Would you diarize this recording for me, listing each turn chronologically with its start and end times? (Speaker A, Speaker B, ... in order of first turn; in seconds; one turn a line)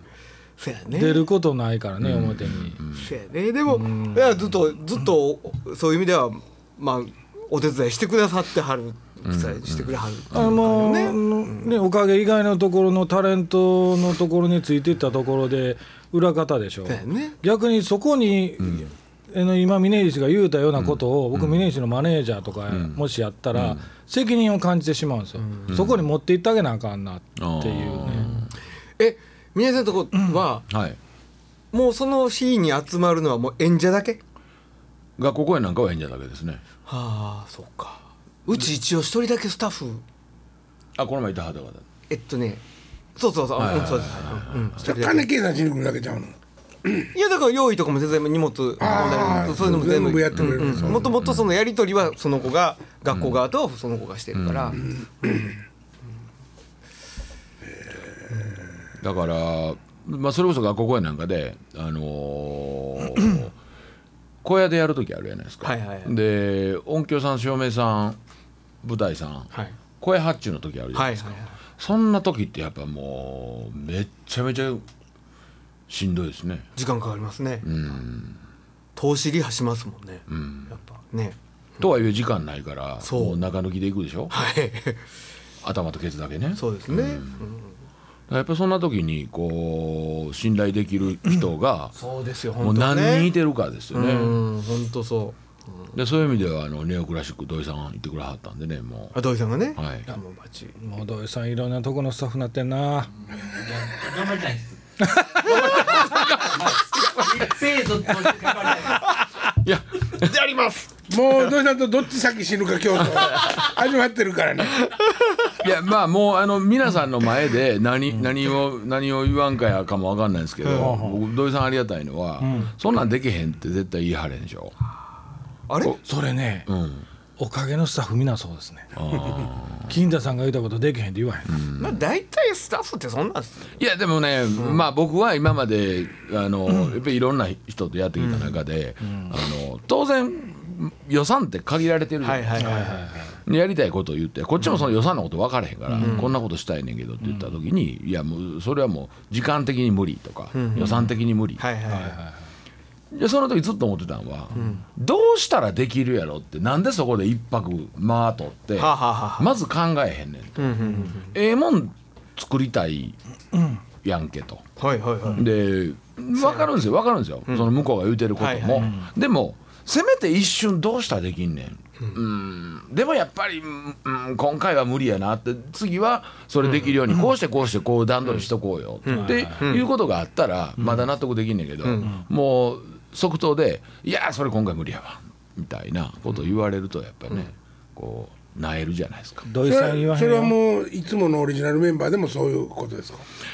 Speaker A: 0.6-1.3
Speaker B: 0.9-2.8
Speaker C: 2.0-3.1
Speaker A: 3.0-11.8
Speaker B: 3.7-4.3
Speaker C: 9.3-10.7
Speaker B: 10.3-28.4
Speaker A: 16.9-17.4
Speaker C: 18.6-18.9
Speaker C: 20.7-21.7
Speaker C: 22.7-23.9
Speaker A: 25.4-25.8
Speaker C: 25.7-26.1
Speaker C: 27.4-28.5
Speaker A: 29.0-30.6
Speaker C: 30.7-31.0
Speaker A: 31.7-34.2
Speaker C: 35.2-36.6
Speaker A: 36.9-40.0
Speaker C: 41.0-41.9
Speaker A: 42.1-42.6
Speaker A: 43.2-45.3
Speaker C: 43.6-44.8
Speaker D: 44.8-47.1
Speaker A: 47.1-55.5
Speaker D: 48.8-51.1
Speaker C: 49.2-49.6
Speaker C: 50.3-51.5
Speaker C: 53.1-53.4
Speaker C: 54.4-54.8
Speaker D: 54.8-55.5
Speaker C: 59.0-63.5
Speaker C: 64.4-68.2
Speaker A: 65.6-66.1
Speaker C: 68.8-74.8
Speaker A: 70.9-71.6
Speaker C: 75.9-76.7
Speaker A: 76.8-77.7
Speaker C: 77.6-78.4
Speaker A: 79.0-81.9
Speaker C: 80.3-80.7
Speaker C: 81.8-84.3
Speaker A: 83.0-83.4
Speaker A: 84.3-85.0
Speaker C: 85.6-87.4
Speaker A: 86.5-87.7
Speaker C: 88.3-91.9
Speaker A: 91.9-93.3
Speaker C: 92.6-94.4
Speaker A: 93.9-95.9
Speaker C: 95.9-99.2
Speaker A: 99.1-100.8
Speaker C: 99.8-100.1
Speaker B: 100.8-103.1
Speaker E: 103.3-104.8
Speaker E: 105.3-109.1
Speaker C: 105.4-106.7
Speaker C: 109.6-110.4
Speaker A: 110.2-110.9
Speaker D: 111.1-114.8
Speaker A: 114.9-115.2
Speaker C: 115.6-124.7
Speaker A: 120.6-121.0
Speaker B: 120.8-121.2
Speaker B: 122.4-122.7
Speaker A: 125.7-126.0
Speaker B: 126.0-126.7
Speaker C: 126.7-127.1
Speaker B: 127.4-128.9
Speaker C: 128.9-130.0
Speaker B: 129.9-131.5
Speaker C: 131.5-132.0
Speaker A: 131.8-133.8
Speaker C: 133.8-142.9
Speaker A: 134.6-134.8
Speaker B: 136.7-137.0
Speaker A: 138.2-138.6
Speaker A: 142.2-143.1
Speaker B: 142.6-143.4
Speaker C: 143.5-151.6
Speaker B: 145.9-146.2
Speaker A: 146.0-146.3
Speaker A: 150.5-152.2
Speaker B: 151.9-152.3
Speaker C: 153.1-163.2
Speaker A: 154.5-154.8
Speaker A: 158.8-159.5
Speaker A: 160.6-161.3
Speaker B: 163.5-163.8
Speaker C: 164.0-164.6
Speaker A: 164.8-165.4
Speaker C: 165.3-189.4
Speaker A: 166.4-166.7
Speaker A: 168.4-169.0
Speaker A: 176.6-177.0
Speaker A: 179.1-179.8
Speaker B: 179.1-179.6
Speaker A: 180.8-181.1
Speaker A: 181.8-182.2
Speaker B: 189.4-190.6
Speaker D: 189.6-193.3